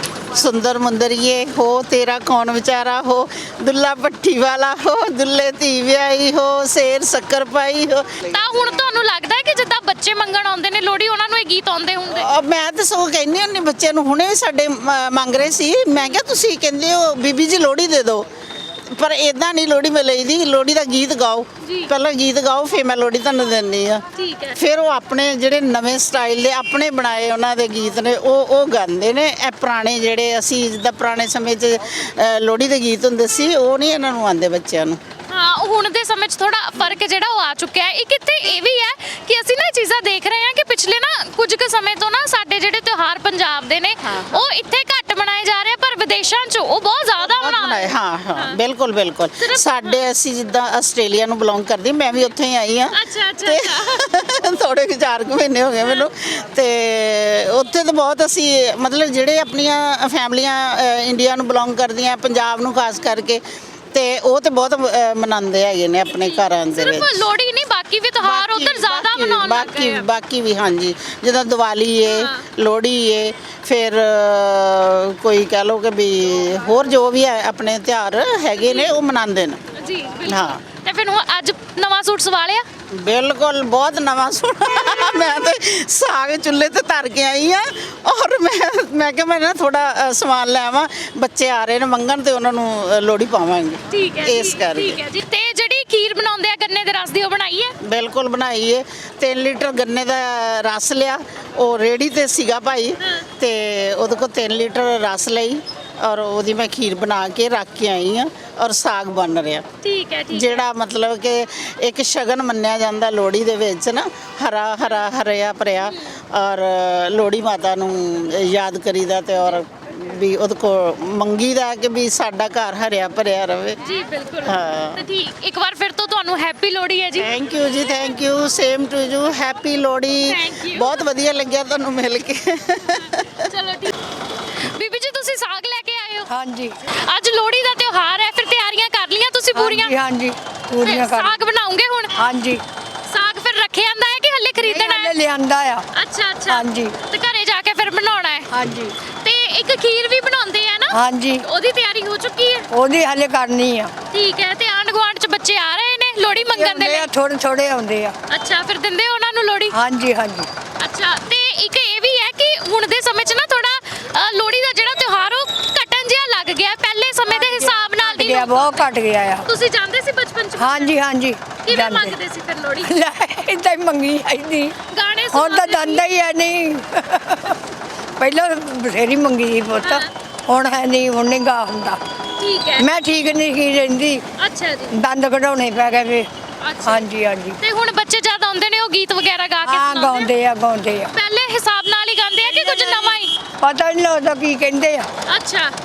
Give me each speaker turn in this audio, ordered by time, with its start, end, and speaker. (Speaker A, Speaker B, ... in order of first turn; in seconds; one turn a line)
Speaker A: 0.3-8.8
Speaker B: 8.3-12.3
Speaker A: 12.1-18.2
Speaker A: 18.9-24.0
Speaker B: 21.6-21.9
Speaker B: 24.1-24.6
Speaker A: 24.6-35.0
Speaker B: 35.3-48.5
Speaker A: 44.0-44.4
Speaker A: 47.3-52.9
Speaker B: 49.4-50.0
Speaker B: 52.9-54.0
Speaker A: 53.5-63.4
Speaker A: 63.9-67.2
Speaker B: 66.2-70.0
Speaker A: 68.2-79.6
Speaker B: 72.1-72.4
Speaker B: 78.6-78.9
Speaker B: 79.8-82.7
Speaker A: 80.3-80.6
Speaker A: 83.0-95.0
Speaker B: 93.9-97.7
Speaker A: 97.9-109.7
Speaker B: 103.0-103.2
Speaker B: 109.8-110.6
Speaker A: 110.3-123.8
Speaker B: 123.8-127.3
Speaker A: 124.5-125.0
Speaker A: 127.2-133.4
Speaker B: 130.3-130.9
Speaker B: 133.5-133.9
Speaker B: 134.6-136.3
Speaker C: 136.3-136.7
Speaker B: 137.0-139.9
Speaker C: 139.5-141.4
Speaker B: 140.8-142.1
Speaker C: 142.2-142.6
Speaker B: 143.1-145.1
Speaker C: 144.6-145.8
Speaker B: 145.9-148.5
Speaker C: 146.5-146.9
Speaker C: 148.5-148.9
Speaker B: 149.2-152.7
Speaker C: 150.9-151.4
Speaker C: 152.7-153.9
Speaker B: 154.1-157.1
Speaker C: 156.3-158.1
Speaker B: 158.3-159.7
Speaker C: 159.7-160.5
Speaker B: 160.8-168.9
Speaker C: 167.3-169.5
Speaker B: 169.4-171.0
Speaker C: 170.6-172.1
Speaker B: 171.6-172.9
Speaker C: 172.8-174.7
Speaker B: 174.9-176.0
Speaker C: 175.3-177.6
Speaker C: 178.2-182.0
Speaker B: 179.8-180.1
Speaker B: 182.4-182.8
Speaker C: 182.8-184.2
Speaker B: 184.4-184.9
Speaker C: 184.9-186.3
Speaker B: 186.6-187.1
Speaker C: 186.8-187.6
Speaker B: 187.6-190.3
Speaker C: 189.7-191.1
Speaker B: 191.1-193.3
Speaker C: 192.4-195.1
Speaker B: 195.3-195.7